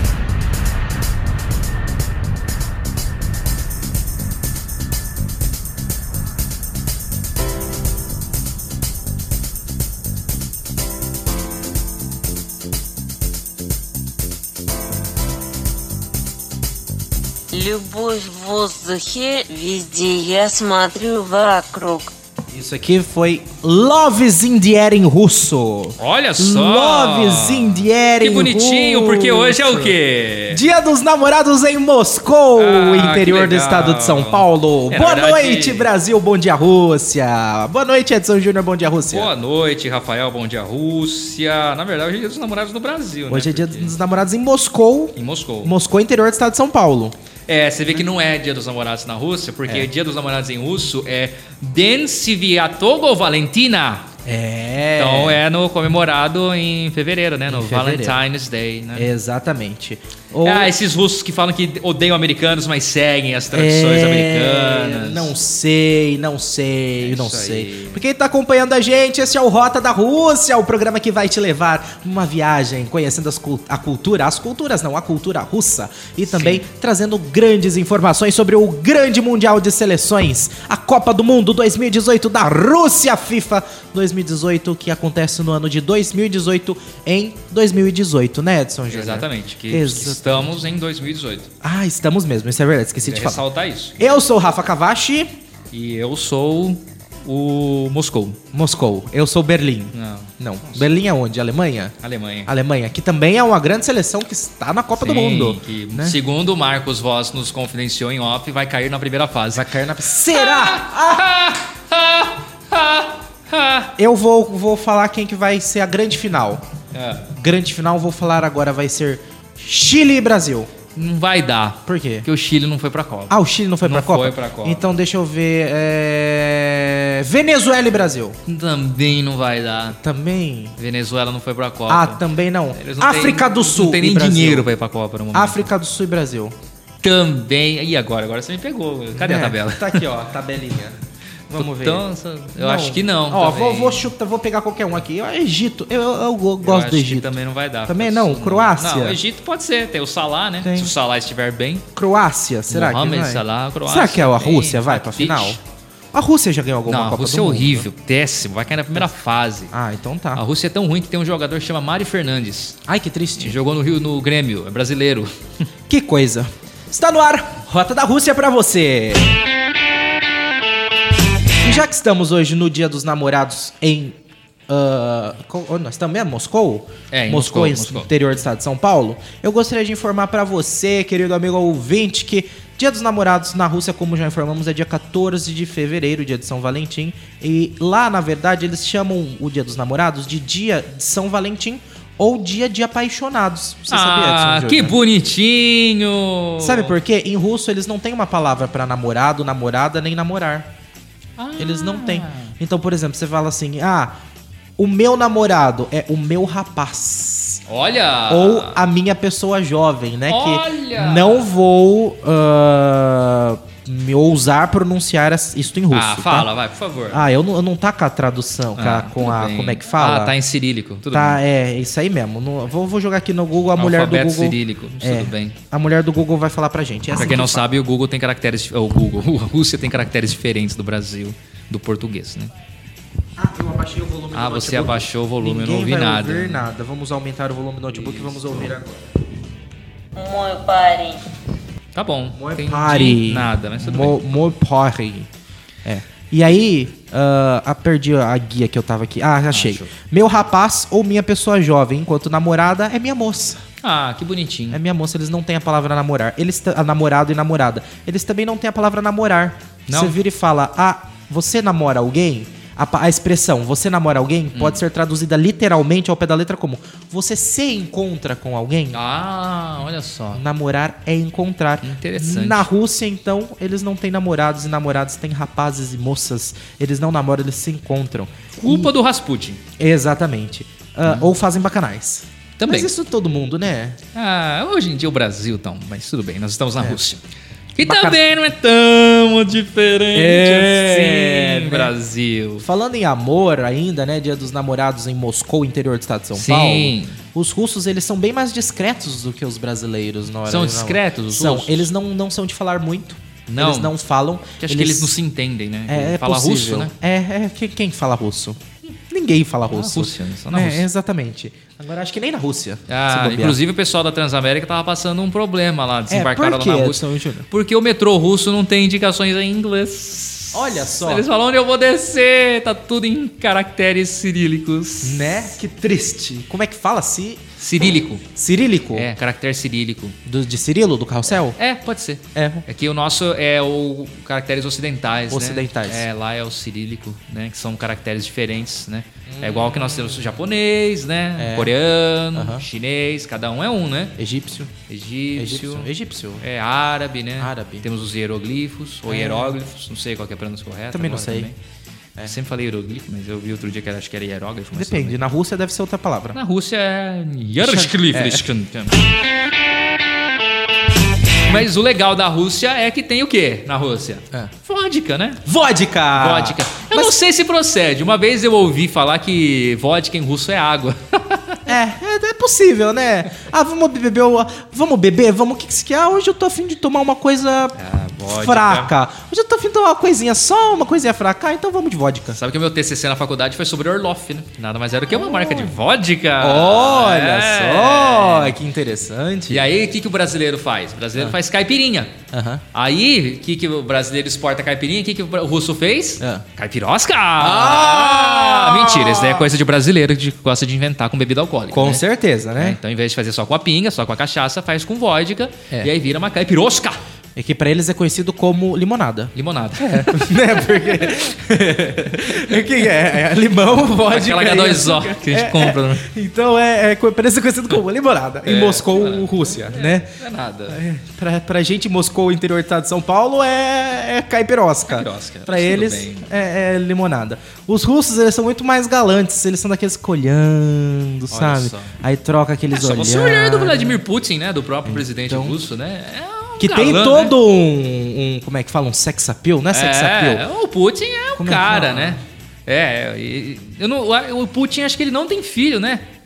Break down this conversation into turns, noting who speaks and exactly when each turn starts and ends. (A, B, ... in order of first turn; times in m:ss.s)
0:17.5-0:22.1 A
0:22.5-0:30.0 B
0:26.0-0:30.6 C
0:30.5-0:39.3 B
0:32.6-0:35.9 C
0:39.0-0:44.0 C
0:43.3-0:47.1 B
0:45.2-0:45.7 C
0:47.5-0:54.1 C
0:54.2-0:55.4 B
0:55.0-0:59.1 C
0:57.5-0:58.2 B
0:58.9-1:00.8 B
1:00.4-1:05.3 C
1:03.5-1:30.6 B
1:07.0-1:08.0 C
1:16.3-1:16.6 C
1:28.9-1:31.5 C
1:31.6-1:33.4 B
1:33.0-1:34.1 C
1:34.0-1:35.3 B
1:35.7-1:38.4 C
1:38.5-1:46.2 B
1:39.9-1:40.8 C
1:42.0-1:42.5 C
1:45.0-1:53.9 C
1:49.5-1:51.3 B
1:54.0-1:56.6 B
1:56.9-1:57.3 C
1:57.3-2:00.7 B
2:00.9-2:04.9 C
2:01.8-2:02.3 B
2:03.3-2:08.4 B
2:08.4-2:10.0 C
2:09.9-2:10.8 B
2:10.8-2:15.7 C
2:11.9-2:14.7 B
2:15.3-2:16.5 B
2:17.0-2:20.1 C
2:19.1-2:21.0 B
2:21.5-2:27.3 B
2:21.6-2:24.1 C
2:26.6-2:31.8 C
2:27.9-2:29.2 B
2:30.6-2:30.9 B
2:31.9-2:35.6 B
2:32.7-2:35.6 C
2:36.1-2:37.9 B
2:36.8-2:39.7 C
2:39.7-2:40.4 B
2:40.3-2:42.8 C
2:42.9-2:43.6 B
2:43.4-2:45.3 C
2:45.9-2:49.4 B
2:51.6-2:54.2 B
2:54.7-3:15.0 B
2:57.1-2:58.1 C
3:13.9-3:16.9 C
3:16.6-3:20.7 B
3:21.4-3:22.5 C
3:21.6-3:24.1 B
3:24.8-3:27.6 B
3:27.7-3:28.8 C
3:28.3-3:36.5 B
3:30.3-3:31.5 C
3:35.9-3:37.3 C
3:37.1-3:40.4 B
3:38.7-3:41.4 C
3:41.1-3:47.7 B
3:43.8-3:45.6 C
3:47.2-3:52.5 C
3:53.4-3:59.0 B
3:54.3-3:56.7 C
3:57.9-3:58.8 C
4:00.1-4:01.2 A
4:01.9-4:04.3 C
4:02.4-4:05.3 B
4:05.8-4:13.6 B
4:09.5-4:09.9 C
4:13.8-4:14.8 C
4:14.7-4:29.0 B
4:19.9-4:20.2 C
4:24.5-4:24.8 C
4:28.9-4:30.4 C
4:30.3-4:38.9 B
4:31.8-4:32.7 C
4:38.6-4:39.6 C
4:39.8-4:44.0 B
4:41.0-4:41.3 C
4:42.6-4:42.9 C
4:44.1-4:47.2 C
4:47.8-4:52.6 C
4:47.8-4:48.3 B
4:50.1-4:51.9 B
4:52.6-5:05.2 B
4:56.3-4:57.2 C
5:00.4-5:01.9 C
5:03.5-5:03.9 C
5:04.6-5:06.9 C
5:05.9-5:13.6 B
5:09.7-5:10.8 C
5:12.9-5:25.5 C
5:16.1-5:17.5 B
5:20.5-5:21.3 B
5:25.0-5:27.4 B
5:27.6-5:28.2 C
5:28.3-5:29.1 B
5:28.9-5:30.2 C
5:30.2-5:31.6 B
5:31.5-5:44.1 C
5:32.3-5:32.6 B
5:35.3-5:36.1 B
5:39.3-5:40.4 B
5:41.4-5:41.7 B
5:42.3-5:42.6 B
5:44.2-5:44.7 B
5:44.9-5:51.6 C
5:45.3-5:46.4 B
5:47.4-5:47.9 B
5:49.1-5:49.6 B
5:50.9-5:51.5 B
5:52.2-5:55.2 C
5:54.7-5:56.4 B
5:56.3-5:59.0 C
5:57.6-5:58.5 B
6:01.4-6:05.4 C
6:05.4-6:07.2 B
6:06.1-6:11.8 C
6:11.6-6:22.4 B
6:17.7-6:18.9 C
6:22.3-6:28.6 C
6:25.1-6:25.8 B
6:26.4-6:29.7 B
6:29.5-6:32.1 C
6:32.3-6:32.6 B
6:32.7-6:42.0 C
6:36.2-6:36.4 B
6:37.4-6:39.5 B
6:41.7-6:42.8 B
6:42.6-6:47.0 C
6:47.4-7:00.1 B
6:49.3-6:51.2 C
6:52.4-6:52.8 C
6:54.0-6:56.1 C
6:58.4-7:00.8 C
7:00.7-7:14.0 B
7:04.9-7:06.2 C
7:11.3-7:11.9 C
7:12.7-7:17.4 C
7:14.8-7:15.6 B
7:16.6-7:20.5 B
7:19.7-7:26.0 C
7:21.3-7:22.2 B